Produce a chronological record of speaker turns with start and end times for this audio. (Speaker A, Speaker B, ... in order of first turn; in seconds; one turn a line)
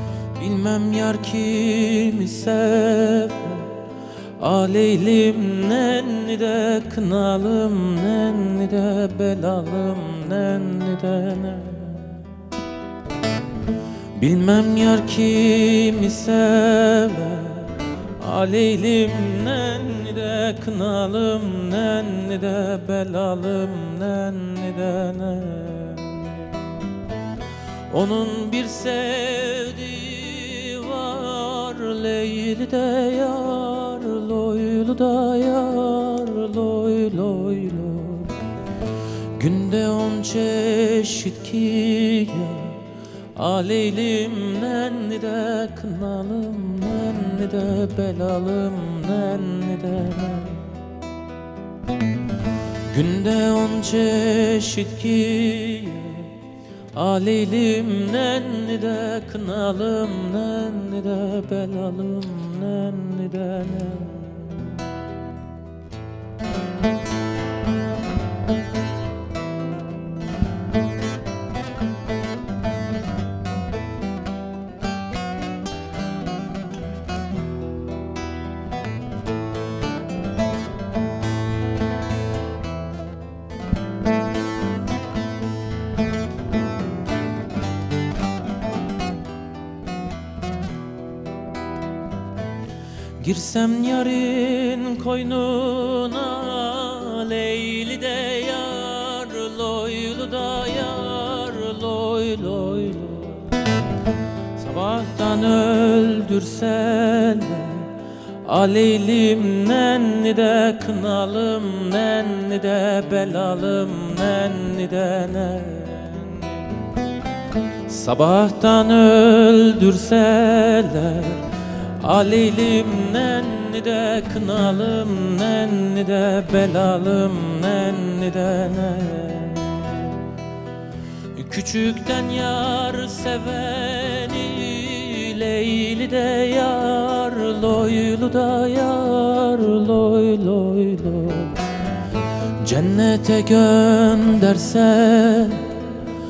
Speaker A: 0.4-3.8
Speaker A: 4.4-12.3
Speaker A: 14.2-26.6
Speaker A: 27.9-38.4
Speaker A: 39.4-42.8
Speaker A: 43.4-50.7
Speaker A: 52.9-56.3
Speaker A: 57.0-64.8
Speaker A: 93.2-103.6
Speaker A: 104.5-116.6
Speaker A: 117.8-121.5
Speaker A: 122.0-130.2
Speaker A: 131.3-141.7
Speaker A: 142.6-145.8